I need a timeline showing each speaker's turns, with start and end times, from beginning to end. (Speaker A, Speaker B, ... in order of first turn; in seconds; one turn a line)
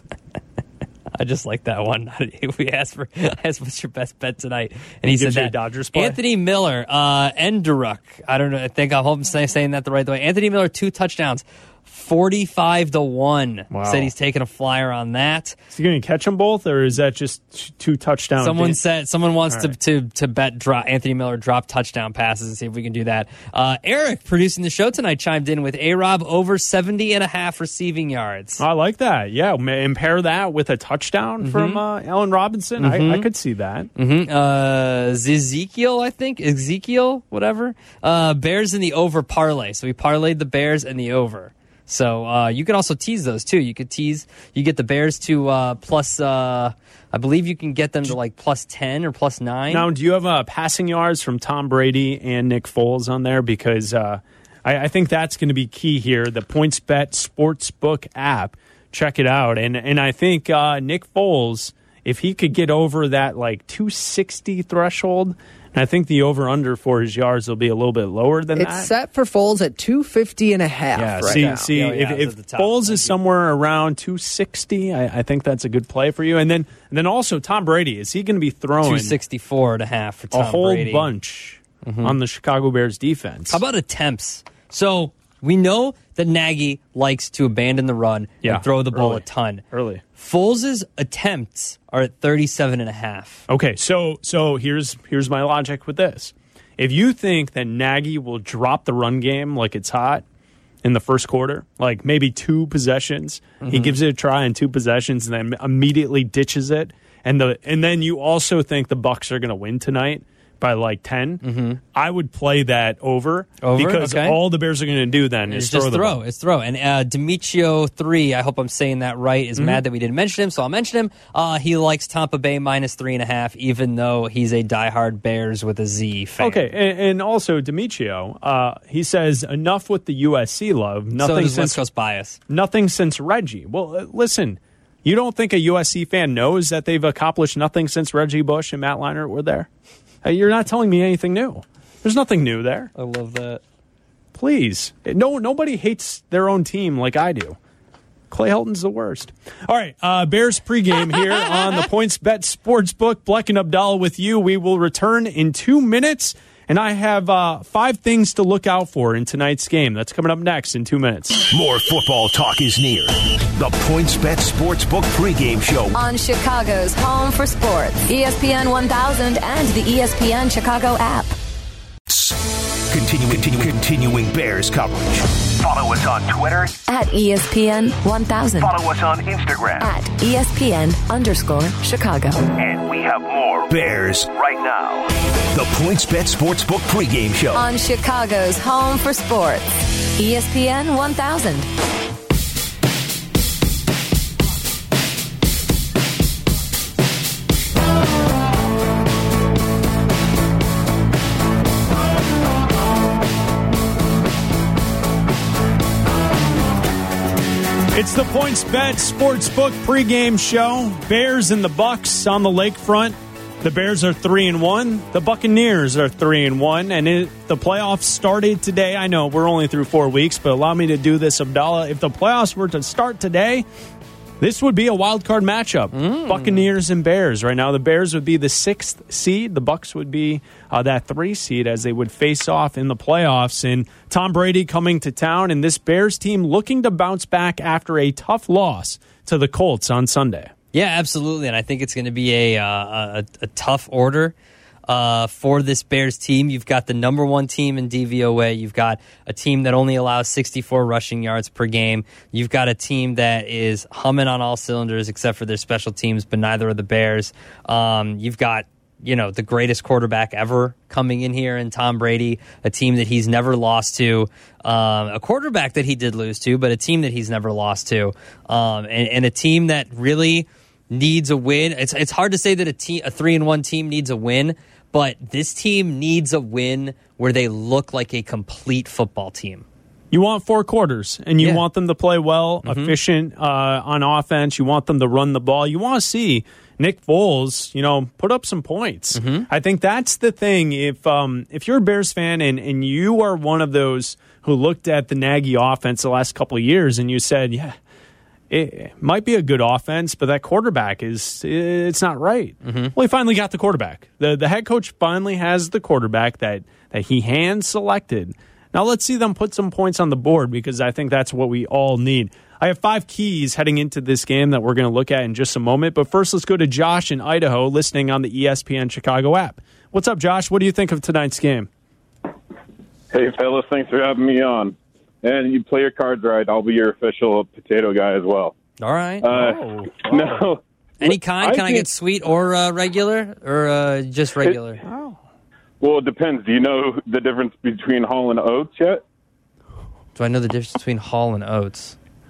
Speaker A: 1.2-15.6
Speaker B: 5.0-6.2
Speaker B: 13.7-14.1
Speaker B: 15.7-18.8
Speaker A: 18.4-28.6
Speaker B: 28.6-33.9
Speaker A: 31.4-31.8
Speaker A: 32.8-33.3
Speaker A: 34.0-49.9
Speaker B: 49.7-68.9
Speaker C: 68.5-71.7
Speaker B: 71.0-79.2
Speaker A: 71.2-73.1
Speaker A: 78.8-81.1
Speaker B: 80.3-83.6
Speaker A: 81.8-82.2
Speaker A: 83.5-89.6
Speaker B: 88.4-90.0
Speaker A: 90.2-93.5
Speaker B: 93.5-100.2
Speaker B: 100.8-116.2
Speaker A: 103.6-104.0
Speaker A: 111.4-111.8
Speaker A: 113.6-114.4
Speaker A: 115.5-126.7
Speaker B: 126.4-131.8
Speaker A: 131.2-132.4
Speaker B: 132.5-139.7
Speaker B: 140.2-142.9
Speaker A: 143.0-143.6
Speaker B: 144.3-147.6
Speaker B: 148.3-161.4
Speaker D: 161.5-166.0
Speaker E: 165.9-171.3
Speaker D: 172.1-176.8
Speaker E: 176.9-178.7
Speaker D: 178.6-179.9
Speaker E: 179.8-182.4
Speaker D: 182.6-187.7
Speaker E: 187.6-191.7
Speaker B: 207.9-223.7
Speaker B: 224.4-240.5
Speaker A: 226.0-226.7
Speaker A: 240.7-244.3
Speaker A: 244.9-279.6
Speaker B: 280.1-297.8
Speaker A: 281.4-281.6
Speaker A: 282.6-282.9
Speaker A: 289.1-289.5
Speaker B: 298.5-321.7
Speaker A: 302.6-302.9
Speaker F: 323.1-328.6
Speaker A: 328.8-329.3
Speaker F: 329.2-331.9
Speaker B: 329.3-330.4
Speaker A: 331.0-334.8
Speaker B: 334.8-335.2
Speaker F: 335.8-339.0
Speaker A: 340.2-342.0